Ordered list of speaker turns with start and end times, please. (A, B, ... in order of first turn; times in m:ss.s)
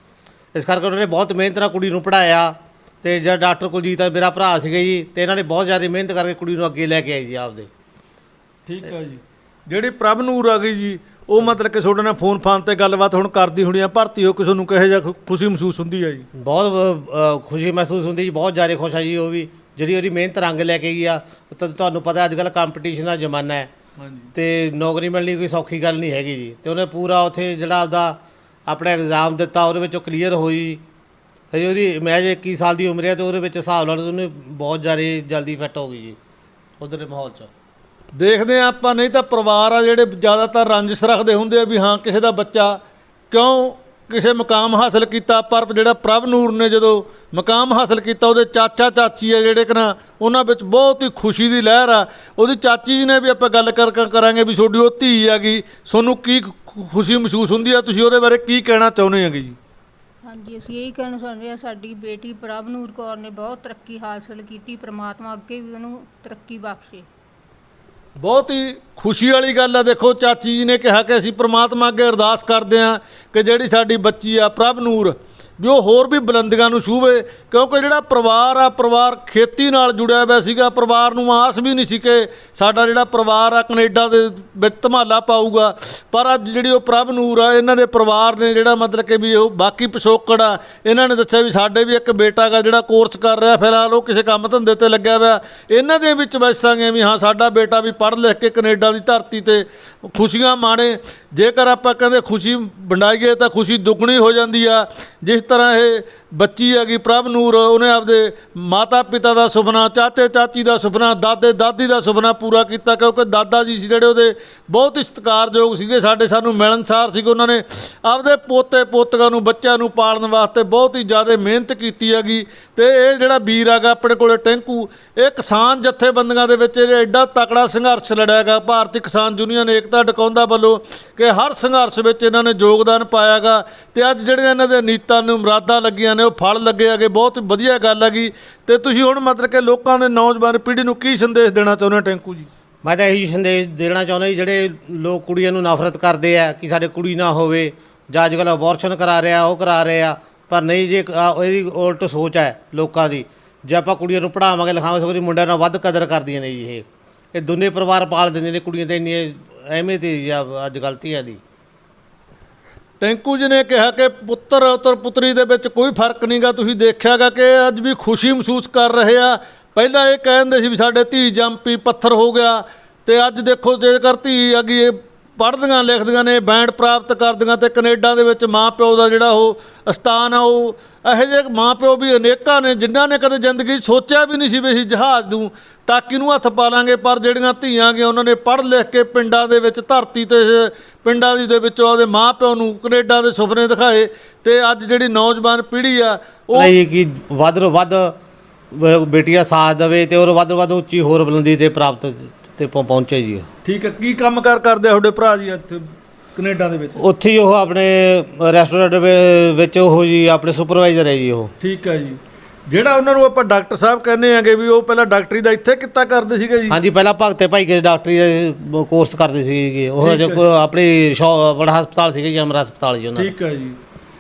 0:00.5-0:07.7 A
0:08.7-0:16.3 B
0:16.3-0:23.7 A
0:24.0-0:24.3 B
0:24.3-0:30.8 A
0:31.5-0:36.2 A
0:36.8-0:37.5 A
0:38.2-0:42.8 B
0:43.3-0:59.6 B
1:00.2-1:07.1 C
1:08.2-2:22.5 B
2:22.8-2:41.4 A
2:43.0-3:16.8 B
3:16.5-3:18.2 A
3:18.7-3:23.5 A
3:23.6-3:27.0 B
3:27.0-3:31.5 A
3:31.6-3:36.8 B
3:36.7-3:43.3 A
3:40.0-3:40.4 B
3:43.2-3:43.8 B